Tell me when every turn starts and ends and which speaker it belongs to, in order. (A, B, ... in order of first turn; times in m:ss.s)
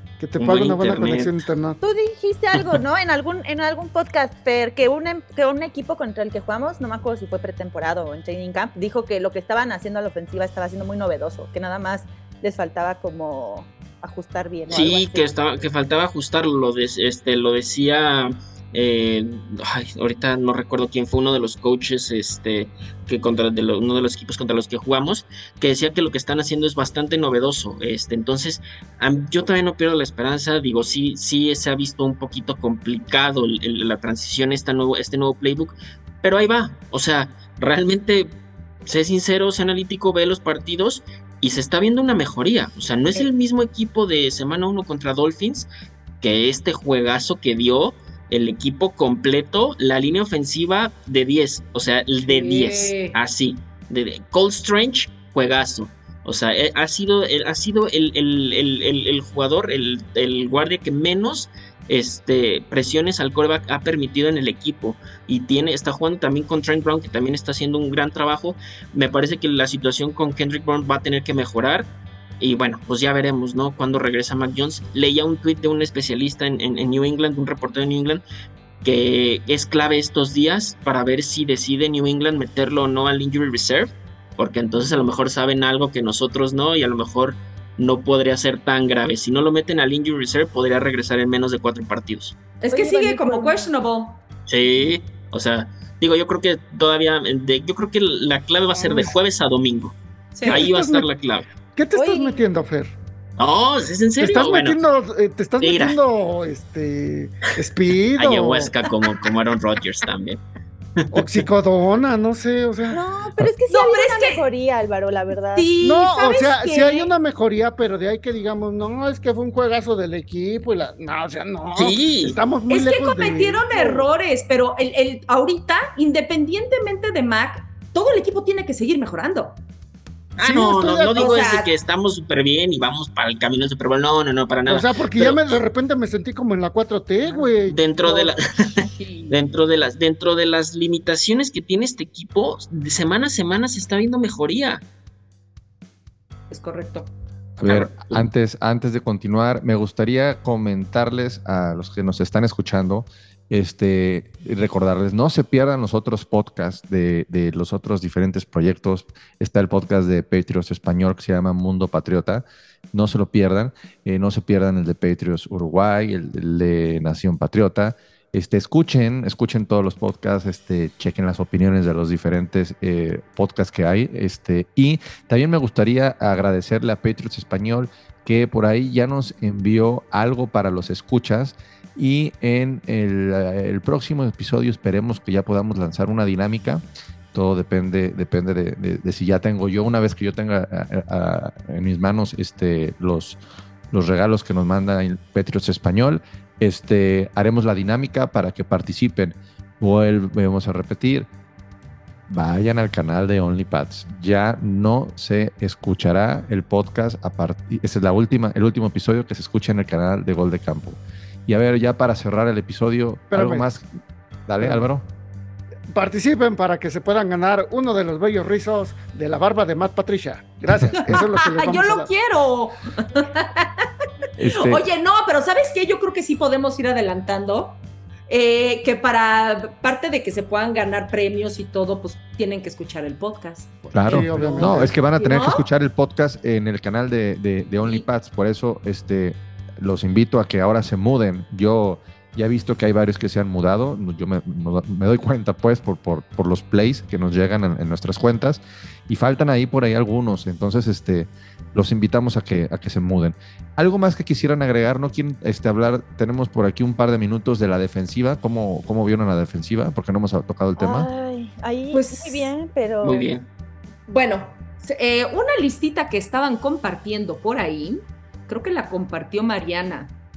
0:00.2-0:01.8 A
0:00.4-0:01.4 B
0:01.8-0:15.3 C
0:02.6-0:02.8 B
0:14.7-0:38.3 B
0:38.9-0:45.7 B
0:46.2-1:18.2 B
0:52.2-0:53.2 D
1:18.8-1:32.4 B
1:32.6-1:34.2 D
1:32.7-1:33.7 C
1:34.5-1:40.0 B
1:38.8-1:39.1 A
1:40.4-1:40.6 D
1:40.4-1:41.1 A
1:40.5-1:41.5 B
1:41.8-1:42.9 A
1:42.0-1:42.4 C
1:43.4-1:44.8 B
1:44.2-1:48.7 A
1:45.6-1:46.0 B
1:48.2-1:50.4 B
1:51.0-1:51.4 B
1:51.1-1:53.0 A
1:52.9-1:55.7 C
1:53.7-1:54.5 D
1:55.5-1:57.1 D
1:55.8-2:04.1 A
2:01.8-2:02.4 B
2:02.7-2:09.6 D
2:10.4-2:11.4 A
2:10.4-2:15.5 B
2:11.1-2:11.7 D
2:14.7-2:17.8 A
2:17.2-2:17.5 D
2:17.7-2:24.8 B
2:18.0-2:19.4 D
2:26.5-2:27.1 D
2:27.6-3:13.4 E
2:27.7-2:28.3 B
3:13.9-3:21.3 E
3:22.3-3:33.8 E
3:33.3-3:33.8 A
3:34.5-3:35.1 E
3:34.6-3:34.9 A
3:35.9-3:42.1 A
3:41.0-3:43.9 D
3:44.4-3:44.8 E
3:44.5-3:55.7 D
3:53.9-4:21.1 E
3:54.1-3:55.0 A
3:57.8-3:58.1 D
4:20.8-4:23.3 C
4:21.9-4:22.6 D
4:23.0-4:23.4 B
4:24.1-4:30.1 D